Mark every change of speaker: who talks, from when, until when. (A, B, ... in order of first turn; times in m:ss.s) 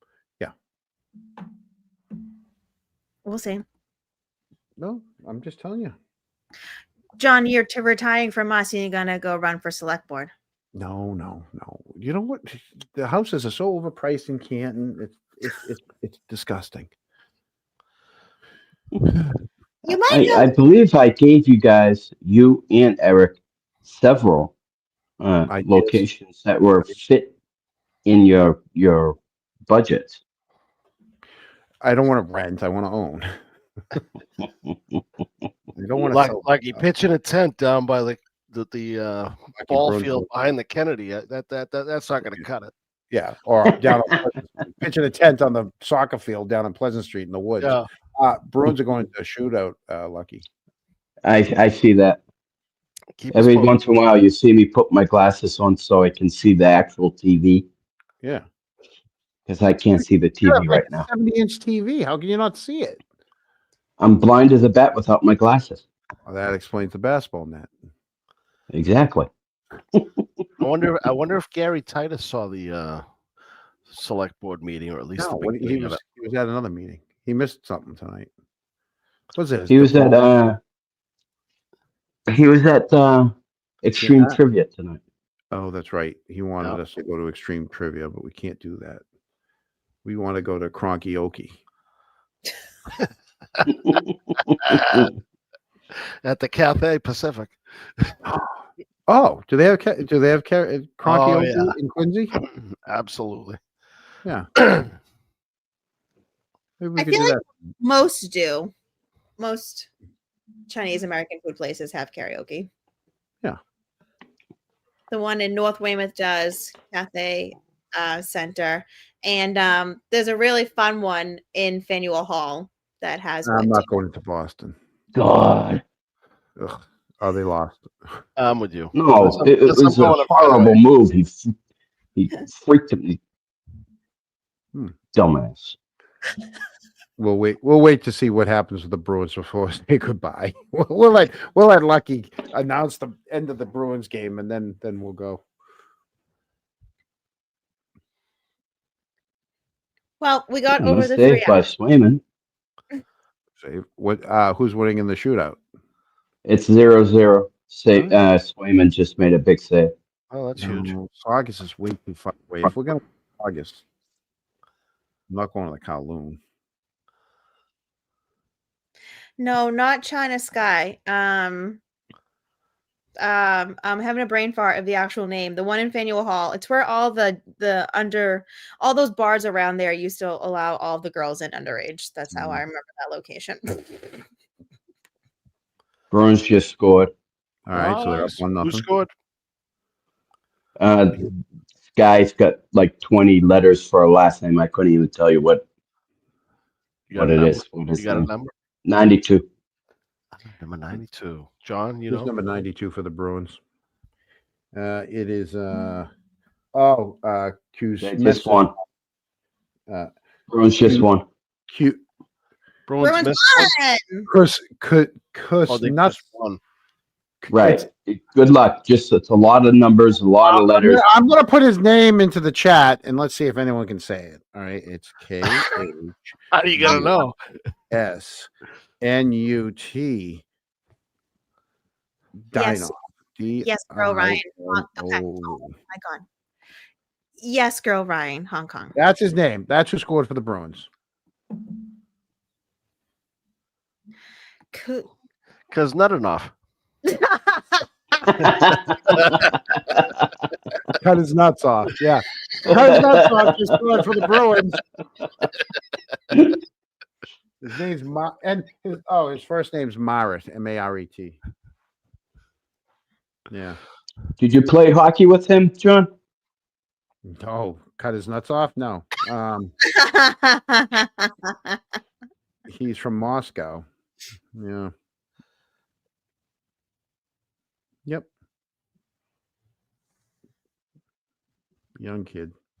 0:03.2-0:03.6 A
0:04.8-0:06.0 B
0:07.2-0:10.3 A
0:10.7-0:16.9 B
0:19.8-0:20.5 A
0:20.1-0:23.3 C
0:23.8-0:24.5 C
0:25.2-0:27.3 C
0:25.5-0:26.0 B
0:28.0-0:30.2 C
0:31.8-0:33.3 B
0:35.8-0:36.8 B
0:36.1-0:42.7 D
0:39.6-0:40.3 B
0:43.1-0:50.4 B
0:47.6-0:47.8 D
0:51.2-0:52.2 C
0:53.2-0:53.8 D
0:53.3-0:57.6 C
0:59.5-1:01.0 C
1:00.4-1:03.0 B
1:04.0-1:05.8 C
1:06.2-1:07.7 B
1:08.7-1:09.3 C
1:09.9-1:10.2 C
1:10.6-1:13.0 D
1:13.9-1:16.0 D
1:15.2-1:18.3 B
1:19.3-1:20.2 B
1:19.7-1:20.6 C
1:22.3-1:25.0 C
1:24.0-1:24.4 B
1:25.5-1:29.0 B
1:30.0-1:31.5 B
1:34.5-1:35.1 D
1:36.2-1:38.1 D
1:38.2-1:42.3 B
1:41.0-1:41.7 D
1:42.4-1:43.6 D
1:44.6-1:44.9 D
1:46.8-1:47.4 B
1:47.0-1:48.7 A
1:49.4-1:49.9 A
1:50.7-1:52.7 A
1:55.1-2:03.9 A
2:03.4-2:04.8 B
2:05.1-2:05.8 C
2:06.6-2:07.9 B
2:08.4-2:10.8 D
2:08.9-2:11.5 C
2:12.2-2:13.2 C
2:15.1-2:15.8 C
2:17.2-2:25.4 B
2:30.2-2:31.7 A
2:30.8-2:32.2 C
2:33.6-2:35.6 B
2:36.4-2:39.9 C
2:40.3-2:40.9 D
2:40.6-2:43.8 B
2:45.3-2:46.4 B
2:49.4-2:51.8 A
2:53.2-3:04.1 A
3:02.3-3:02.6 B
3:06.1-3:07.1 C
3:07.7-3:08.8 B
3:07.7-3:09.1 D
3:10.8-3:11.4 C
3:11.9-3:15.6 C
3:17.1-3:18.5 D
3:17.1-3:18.3 C
3:18.8-3:19.4 C
3:20.4-3:22.3 D
3:22.1-3:23.6 B
3:24.7-3:26.1 B
3:26.7-3:28.7 B
3:28.0-3:28.7 C
3:30.5-3:31.2 C
3:30.8-3:31.1 B
3:31.7-3:32.0 B
3:32.9-3:33.7 D
3:33.0-3:34.3 A
3:34.3-3:36.2 B
3:35.7-3:36.6 D
3:37.4-3:37.9 B
3:37.5-3:41.0 C
3:40.4-3:47.2 B
3:46.5-3:47.4 D
3:47.9-3:48.5 B
3:49.0-3:50.4 B
3:52.5-3:55.7 B
3:52.5-3:52.9 A
3:53.6-3:56.2 A
3:57.4-3:58.9 A
3:58.9-4:00.9 B
4:04.7-4:05.1 A
4:05.7-4:06.5 D
4:07.0-4:07.8 A
4:08.5-4:10.0 D
4:11.0-4:14.8 B
4:12.7-4:13.4 C
4:17.6-4:21.4 B
4:23.5-4:23.8 B
4:24.4-4:26.1 C
4:27.2-4:29.7 B
4:29.8-4:31.8 A
4:32.7-4:33.8 B
4:34.5-4:34.9 B
4:42.0-4:42.5 B